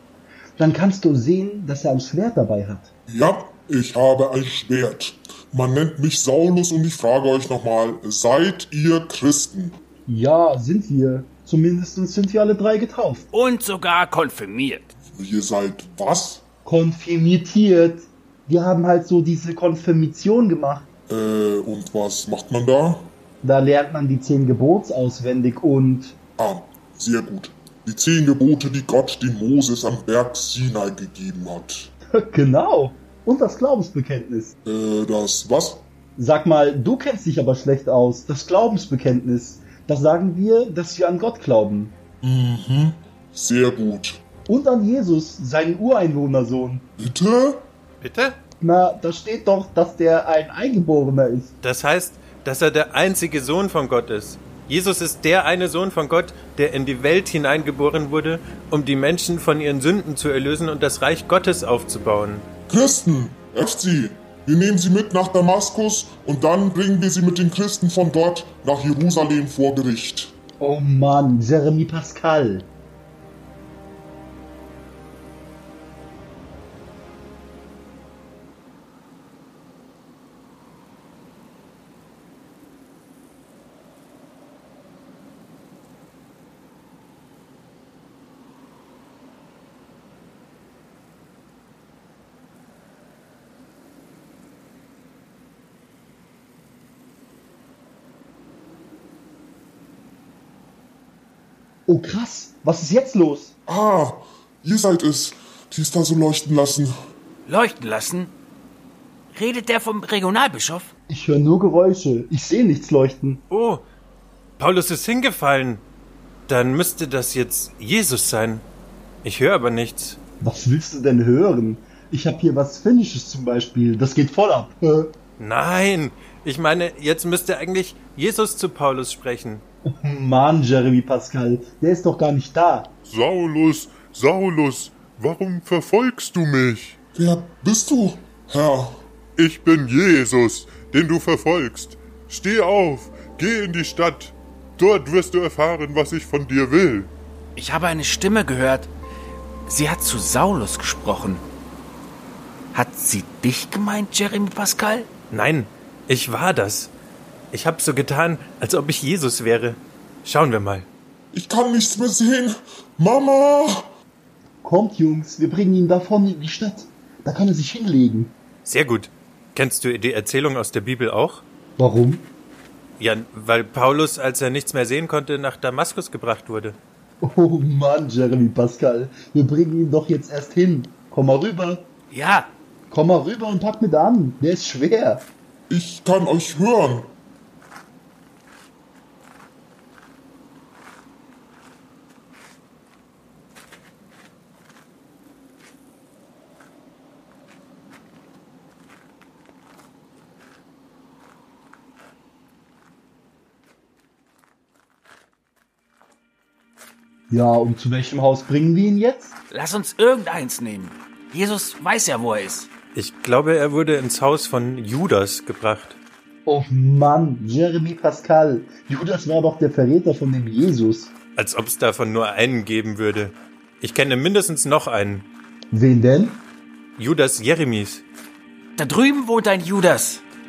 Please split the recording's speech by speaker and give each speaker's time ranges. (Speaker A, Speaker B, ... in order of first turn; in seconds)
Speaker A: 0.6-2.9, 10.1-13.2, 16.6-20.9, 23.4-26.2, 32.1-34.5, 36.2-41.9, 44.5-46.9, 48.6-51.5, 70.6-72.7, 101.9-103.5, 111.1-113.4, 120.4-125.1, 129.9-132.9, 164.6-168.4, 171.8-172.3, 177.2-181.9, 182.9-185.3, 207.3-209.3, 216.4-221.1, 225.7-226.4
Speaker B: 3.1-9.8, 15.1-16.4, 21.1-23.1, 26.4-31.9, 34.6-35.9, 42.2-44.2, 47.0-47.7, 62.7-70.3, 103.7-106.9, 137.1-139.0, 161.3-163.9, 185.7-187.1
Speaker C: 13.3-14.9, 107.5-108.3, 109.3-110.9, 147.6-148.9, 149.7-151.4, 152.7-155.1, 182.1-182.5, 209.5-212.7, 228.8-230.2
Speaker D: 48.0-48.4, 51.6-62.5, 113.5-113.8, 114.6-115.8, 116.5-118.7, 119.2-120.2, 125.4-129.6, 155.3-156.9, 157.5-160.9, 168.6-171.4, 173.0-176.8, 212.9-216.0, 221.3-225.3, 227.0-228.0
Speaker E: 133.1-137.0, 139.3-147.1